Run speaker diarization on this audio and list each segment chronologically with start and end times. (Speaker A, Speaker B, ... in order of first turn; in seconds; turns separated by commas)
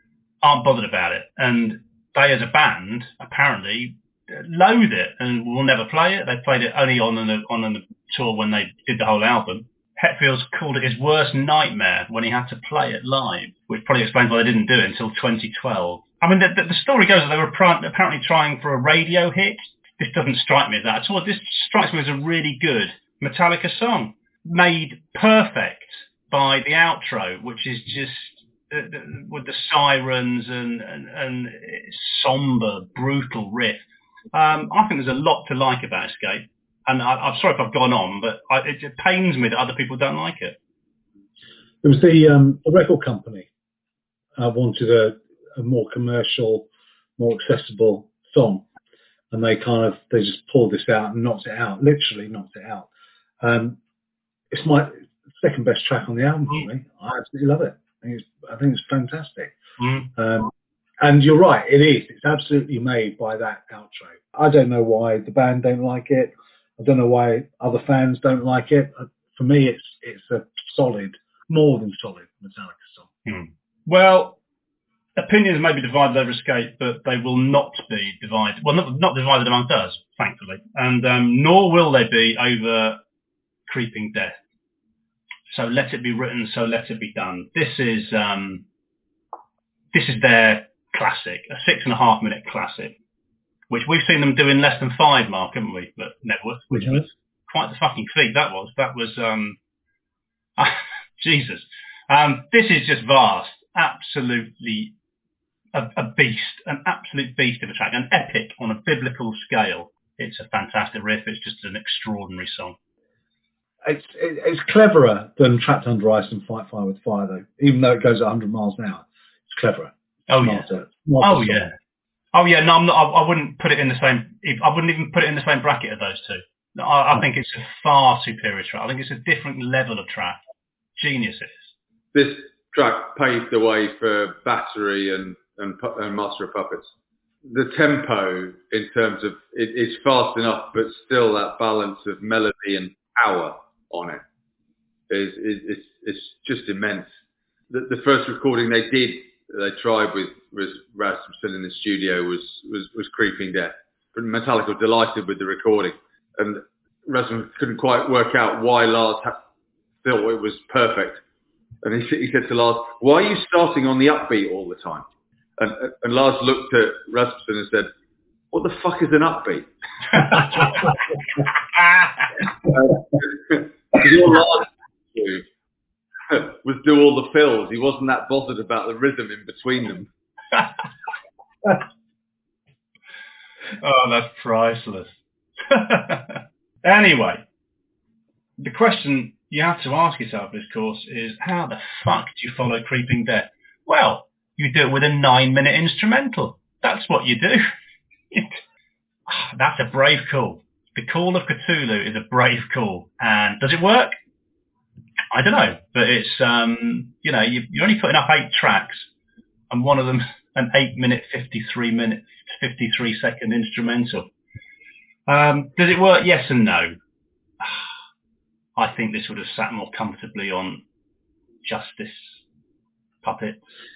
Speaker A: 0.4-40.6, Speaker B: 41.8-43.5, Speaker B: 44.4-48.6, Speaker B: 49.3-52.9, Speaker B: 53.4-53.8, Speaker B: 54.5-59.5, Speaker A: 59.8-60.1, Speaker B: 60.1-73.1, Speaker A: 73.2-74.4, Speaker A: 75.2-83.0, Speaker A: 83.7-84.4, Speaker A: 85.5-88.6, Speaker A: 89.9-92.9, Speaker A: 93.7-99.6, Speaker B: 96.7-97.0, Speaker A: 100.6-104.9, Speaker A: 105.7-112.8, Speaker B: 113.8-121.7, Speaker A: 120.3-120.7, Speaker A: 121.2-121.7, Speaker A: 122.3-130.4, Speaker A: 131.0-131.7, Speaker C: 132.1-136.9, Speaker C: 137.4-144.2, Speaker C: 145.1-147.1, Speaker C: 147.7-159.3, Speaker C: 160.0-161.2, Speaker C: 161.8-165.0, Speaker C: 165.6-167.9, Speaker C: 168.5-170.9, Speaker C: 172.6-175.4, Speaker C: 176.3-180.1, Speaker A: 183.8-185.1, Speaker A: 185.7-187.4, Speaker A: 188.6-197.6, Speaker A: 198.3-198.6, Speaker A: 199.3-204.1, Speaker A: 205.3-209.1, Speaker A: 209.7-214.2, Speaker A: 215.3-216.9, Speaker A: 217.6-217.9, Speaker A: 218.8-220.8, Speaker A: 221.6-222.4, Speaker A: 223.2-223.6